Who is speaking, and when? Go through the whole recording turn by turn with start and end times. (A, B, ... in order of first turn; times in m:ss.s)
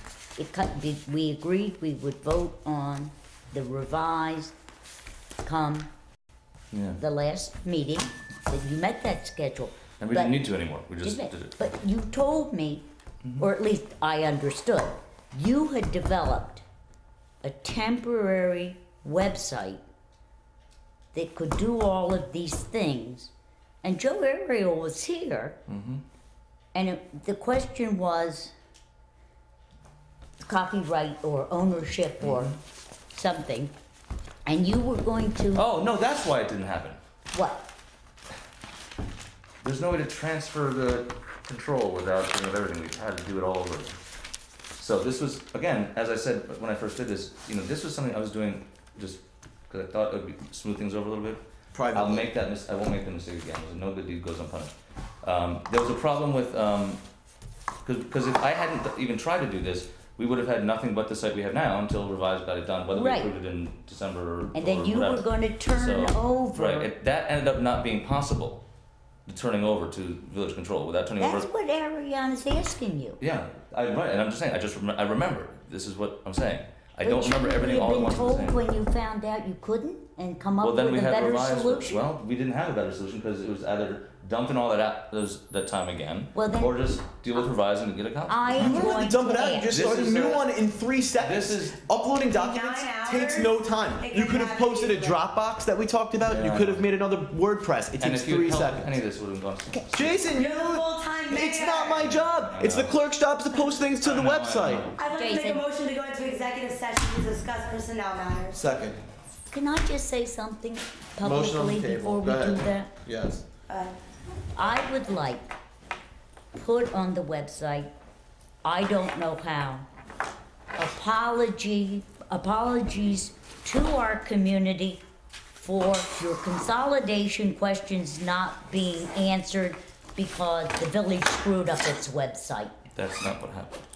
0:00.4-0:04.5 A
0:05.4-0:05.9 A
0:06.7-0:07.0 B
0:07.0-0:10.4 A
0:10.0-0:11.5 B
0:11.0-0:12.9 A
0:13.2-0:13.5 B
0:13.4-0:16.6 A
0:17.4-0:19.8 A
0:21.1-0:23.3 A
0:23.8-0:25.6 A
0:25.7-0:26.0 B
0:26.8-0:28.5 A
0:30.4-0:32.6 A
0:32.2-0:32.6 B
0:33.1-0:33.7 A
0:34.5-0:35.7 A
0:35.5-0:37.0 B
0:37.3-0:37.7 A
0:39.6-0:44.0 B
0:44.8-0:57.0 B
0:51.7-0:52.3 C
0:57.8-1:08.6 B
1:02.9-1:03.3 A
1:04.5-1:06.9 A
1:09.2-1:11.5 B
1:11.2-1:13.2 A
1:13.2-1:18.6 B
1:17.0-1:22.0 A
1:20.6-1:28.9 B
1:26.3-1:26.8 A
1:28.3-1:29.9 A
1:28.6-1:39.0 C
1:29.7-1:30.5 B
1:31.2-1:31.8 B
1:32.2-1:35.2 D
1:36.2-1:36.9 B
1:38.0-1:40.4 B
1:39.9-1:44.9 C
1:40.3-1:42.1 D
1:42.2-1:43.0 B
1:44.0-1:44.9 B
1:45.0-1:48.6 D
1:45.1-1:45.6 A
1:48.5-1:49.0 C
1:49.5-1:52.9 A
1:51.2-1:53.4 C
1:53.7-1:53.9 D
1:54.6-1:55.6 A
1:56.5-1:57.9 A
1:58.6-1:59.9 A
2:00.8-2:05.0 A
2:05.6-2:12.8 A
2:12.9-2:13.8 B